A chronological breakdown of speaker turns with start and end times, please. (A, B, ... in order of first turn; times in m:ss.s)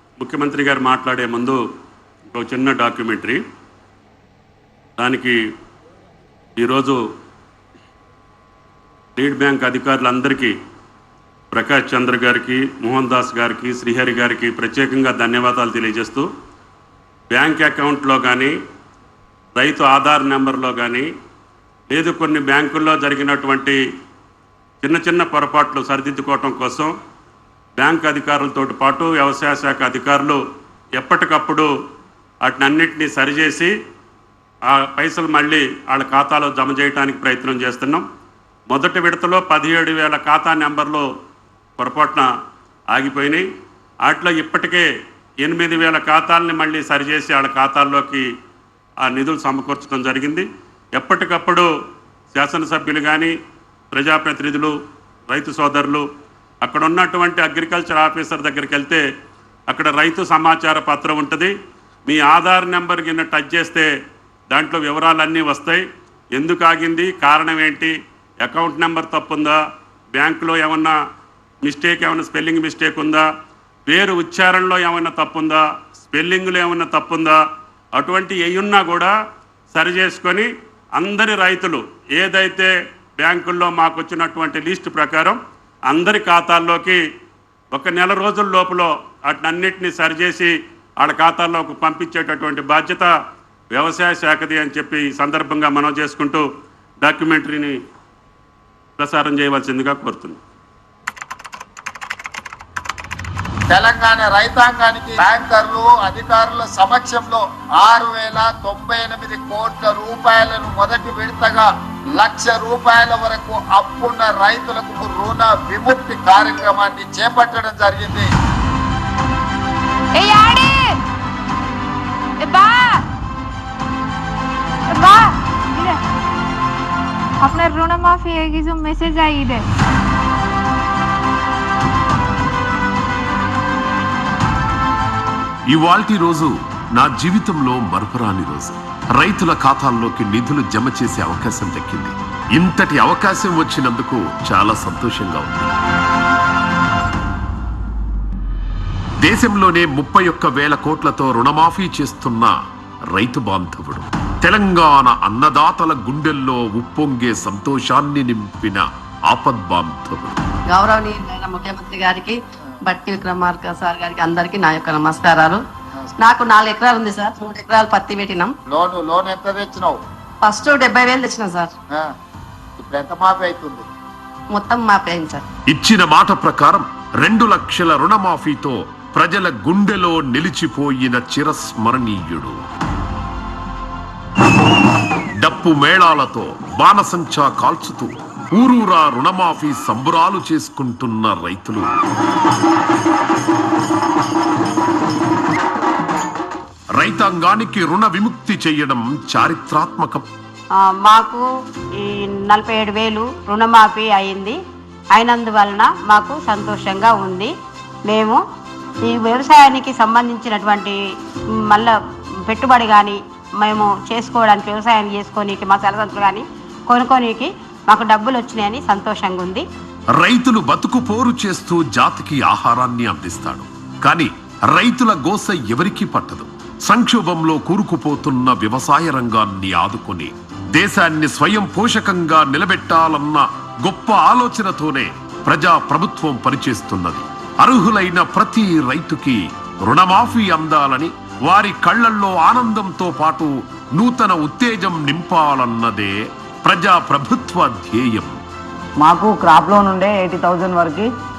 0:00.2-0:01.6 A
0:02.3-0:03.4 A
0:05.0-0:05.3 A
0:06.6-0:07.0 A
0:09.2-0:10.5 A
0:11.5-0:16.2 A
0:17.3-0:18.5 A
0:19.6-0:21.0 A
0:21.9-0:23.8 A
0:24.8-0:26.9 A
0:27.8-0:30.4 A
0:31.0-0:31.7 A
0:32.4-0:33.7 A
0:34.9-0:38.0 A
0:38.7-0:41.0 A
0:41.8-0:42.3 A
0:42.9-0:43.4 A
0:44.0-0:44.8 A
0:45.4-0:48.2 A
0:49.0-0:51.6 A
0:52.3-0:53.3 A
0:53.9-0:54.7 A
0:55.3-0:56.0 A
0:56.6-0:59.0 A
0:59.7-1:01.5 A
1:02.0-1:03.9 A
1:04.5-1:05.8 A
1:06.3-1:07.9 A
1:08.4-1:09.6 A
1:10.1-1:10.9 A
1:11.6-1:13.2 A
1:13.9-1:17.4 A
1:18.0-1:19.1 A
1:19.7-1:25.4 A
1:25.9-1:27.0 A
1:27.7-1:33.1 A
1:33.7-1:36.4 A
1:37.0-1:37.7 A
1:39.0-1:40.4 A
1:43.7-1:58.3 B
2:00.2-2:01.0 C
2:02.4-2:03.0 C
2:04.9-2:06.0 C
2:07.4-2:09.6 C
2:15.7-2:25.7 D
2:29.2-2:32.5 D
2:33.1-2:40.4 D
2:40.7-2:45.6 E
2:46.2-2:48.5 E
2:48.7-2:50.0 B
2:50.4-2:51.7 E
2:52.8-2:53.8 B
2:54.5-2:55.4 E
2:55.7-3:02.6 D
3:05.4-3:11.9 D
3:17.0-3:20.2 D
3:21.0-3:21.4 F
3:22.0-3:24.6 F
3:25.2-3:27.5 F
3:28.1-3:28.4 F
3:29.0-3:31.0 F
3:32.5-3:39.6 F
3:40.2-4:08.3 D
4:09.0-4:11.1 G